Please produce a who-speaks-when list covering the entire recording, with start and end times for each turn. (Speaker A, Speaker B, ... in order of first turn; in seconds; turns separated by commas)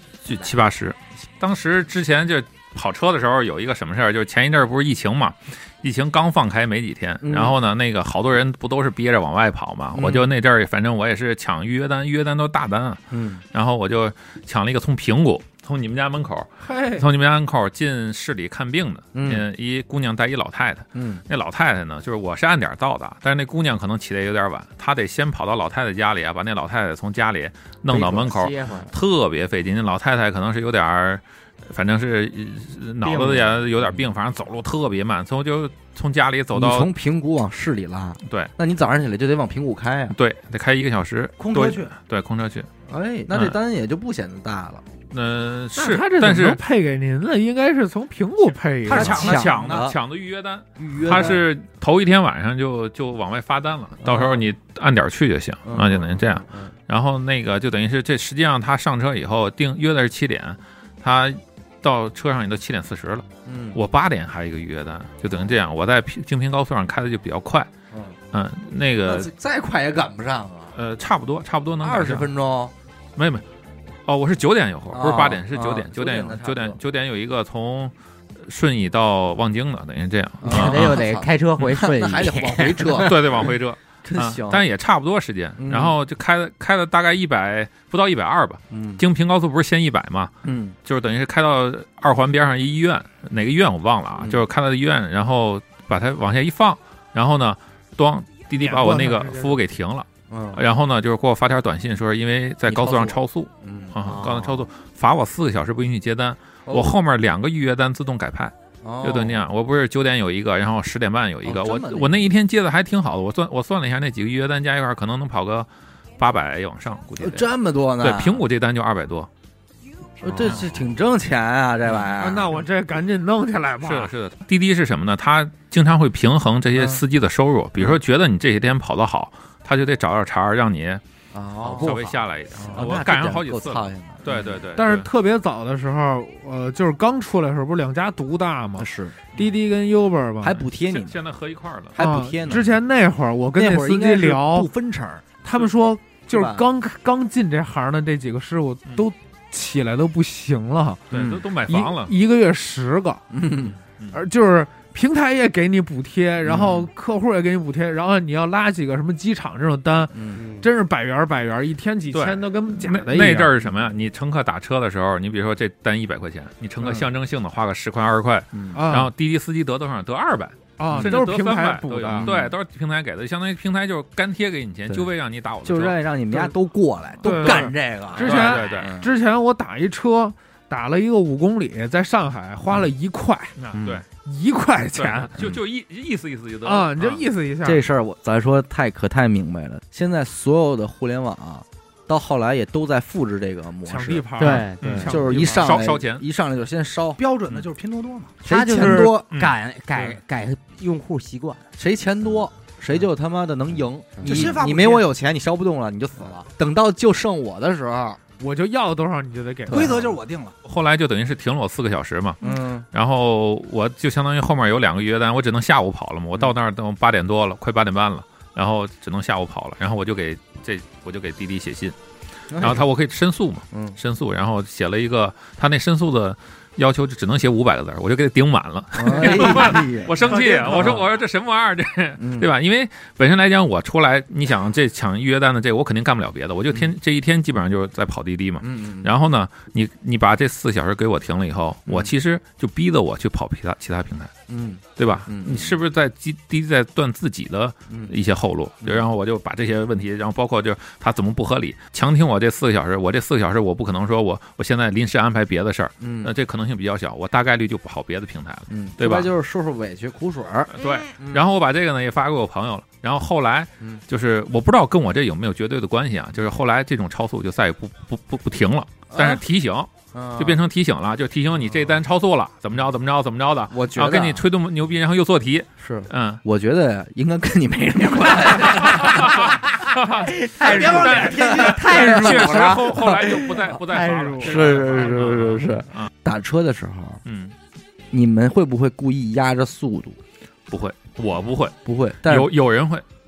Speaker A: 0.2-13.0, Speaker B: 7.2-7.5, Speaker B: 9.9-10.3, Speaker B: 13.1-13.4, Speaker A: 13.5-36.9, Speaker C: 16.6-17.1, Speaker B: 19.1-19.4, Speaker B: 20.9-21.2, Speaker D: 27.9-28.9, Speaker D: 33.0-33.6, Speaker B: 36.5-40.2, Speaker A: 40.1-42.7, Speaker E: 41.4-41.9, Speaker B: 42.9-44.8, Speaker A: 43.3-43.6, Speaker A: 45.1-46.6, Speaker C: 45.8-49.3, Speaker E: 48.8-49.8, Speaker B: 48.9-50.0, Speaker A: 48.9-67.7, Speaker B: 50.8-51.4, Speaker D: 51.0-51.3, Speaker B: 54.0-54.4, Speaker B: 55.7-56.7, Speaker B: 63.5-63.8, Speaker B: 67.9-68.2, Speaker A: 68.3-69.3, Speaker B: 69.0-70.8, Speaker A: 70.8-72.3, Speaker B: 71.8-72.7, Speaker A: 73.2-73.4, Speaker A: 74.1-77.9, Speaker B: 74.9-76.8, Speaker A: 78.5-81.0, Speaker B: 80.4-83.5, Speaker D: 80.5-83.5, Speaker A: 82.9-90.3, Speaker B: 84.0-84.6, Speaker B: 85.6-86.0, Speaker B: 88.7-89.0, Speaker B: 90.4-90.8, Speaker A: 90.8-117.5, Speaker C: 98.5-99.5, Speaker B: 100.3-100.6, Speaker B: 102.7-104.0, Speaker D: 104.0-104.7, Speaker B: 106.7-107.0, Speaker B: 108.8-109.4, Speaker B: 111.5-112.3, Speaker B: 117.2-118.4, Speaker A: 118.0-119.3, Speaker B: 120.2-122.6, Speaker A: 120.4-120.7, Speaker C: 122.2-124.1, Speaker A: 123.8-131.0, Speaker B: 126.8-127.0, Speaker B: 131.3-132.0, Speaker D: 131.6-132.8, Speaker A: 131.7-135.1, Speaker B: 132.6-134.7, Speaker C: 134.8-140.6, Speaker B: 138.8-139.4, Speaker B: 140.4-141.2, Speaker A: 140.8-142.6, Speaker B: 141.9-142.8, Speaker C: 142.0-144.7, Speaker B: 143.6-145.3, Speaker C: 145.4-151.0, Speaker B: 146.3-146.6, Speaker B: 151.1-151.4, Speaker A: 151.1-152.1, Speaker C: 151.7-153.2, Speaker B: 153.3-153.8, Speaker C: 154.1-163.5, Speaker B: 156.4-156.9, Speaker B: 160.1-160.4, Speaker D: 160.3-160.7, Speaker A: 162.1-176.0, Speaker B: 168.5-168.8, Speaker C: 168.7-169.1, Speaker C: 170.8-172.3, Speaker B: 170.9-171.2, Speaker B: 172.1-172.5, Speaker B: 175.7-179.1, Speaker C: 177.2-183.5, Speaker A: 177.3-179.0, Speaker A: 183.6-184.1, Speaker B: 183.8-184.0, Speaker C: 184.2-185.3, Speaker A: 185.0-187.2, Speaker C: 186.7-187.8, Speaker B: 187.6-197.2, Speaker C: 193.8-195.7, Speaker D: 194.4-195.1, Speaker A: 194.8-196.2, Speaker E: 197.2-198.4, Speaker B: 198.4-199.3, Speaker D: 198.4-201.7, Speaker A: 199.3-200.1, Speaker B: 201.8-208.2, Speaker D: 204.2-204.5, Speaker E: 204.2-205.1, Speaker C: 208.4-209.9, Speaker B: 209.7-210.2, Speaker E: 209.7-210.5, Speaker A: 210.7-212.4, Speaker B: 212.4-212.9, Speaker A: 212.9-221.9, Speaker B: 222.5-222.8, Speaker A: 222.6-244.3, Speaker B: 223.7-224.0, Speaker B: 229.0-231.1, Speaker B: 232.2-232.5, Speaker B: 238.6-239.1, Speaker B: 241.9-242.1, Speaker B: 244.5-245.8, Speaker A: 245.0-259.3, Speaker B: 256.0-256.3, Speaker B: 258.7-261.5, Speaker A: 260.7-276.4, Speaker B: 269.1-269.4, Speaker B: 270.1-270.6, Speaker B: 273.7-274.4, Speaker B: 275.8-279.6, Speaker A: 278.6-286.1, Speaker D: 280.1-284.8, Speaker E: 280.6-282.0, Speaker B: 281.1-283.4, Speaker B: 284.4-287.2, Speaker A: 287.3-287.6, Speaker B: 288.1-290.2, Speaker A: 290.7-293.0, Speaker B: 291.9-292.6